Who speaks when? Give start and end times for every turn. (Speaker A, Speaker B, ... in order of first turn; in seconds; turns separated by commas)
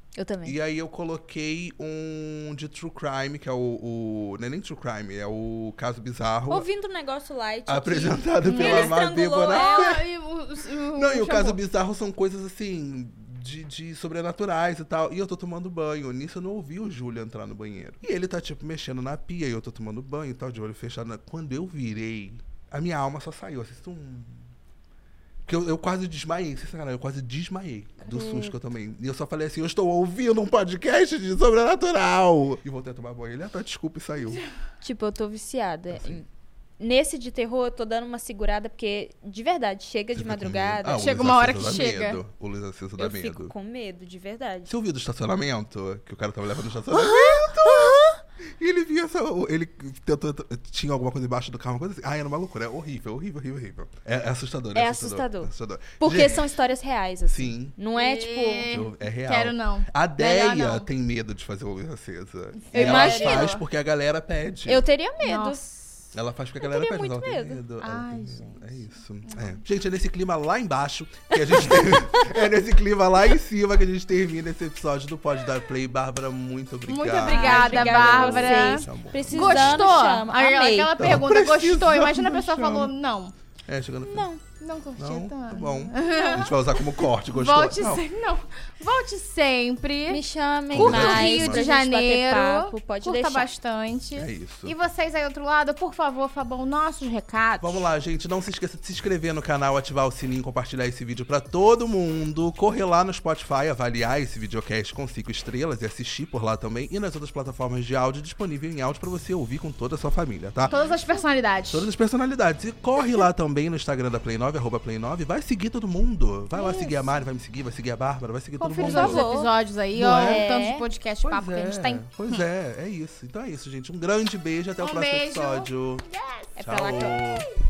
Speaker A: 0.2-0.6, Speaker B: 0.5-6.7, Speaker A: 6.5-10.0, Speaker B: 7.7-10.1, Speaker C: 8.5-11.6, Speaker B: 10.9-24.5, Speaker B: 25.4-34.4, Speaker A: 28.1-28.6, Speaker A: 34.8-36.3, Speaker B: 35.9-36.2, Speaker A: 36.8-41.1, Speaker B: 40.2-43.5, Speaker C: 40.9-42.2, Speaker A: 43.0-44.7, Speaker B: 44.7-56.5, Speaker A: 46.9-48.2, Speaker A: 54.8-58.8, Speaker B: 57.3-57.8, Speaker C: 57.9-60.9, Speaker B: 58.7-64.9, Speaker C: 62.6-63.6, Speaker A: 62.7-63.5, Speaker A: 64.7-65.6, Speaker C: 65.2-65.8, Speaker B: 66.1-80.0, Speaker A: 66.6-67.6, Speaker C: 67.8-69.6, Speaker C: 76.9-83.3, Speaker A: 77.2-81.1, Speaker B: 81.0-82.9, Speaker B: 83.7-84.3, Speaker A: 84.1-84.4, Speaker C: 84.6-90.2, Speaker B: 85.0-88.0, Speaker A: 86.2-86.5, Speaker A: 90.1-93.5, Speaker B: 90.7-91.7, Speaker C: 90.7-97.9, Speaker B: 94.2-94.8, Speaker B: 97.6-110.8, Speaker C: 110.7-111.9, Speaker B: 111.7-119.2, Speaker C: 116.5-117.1, Speaker C: 118.6-122.5, Speaker A: 118.8-119.5, Speaker B: 119.9-120.5, Speaker A: 120.1-120.9, Speaker B: 121.2-126.1, Speaker C: 124.8-127.4, Speaker A: 126.6-127.4, Speaker B: 126.6-127.5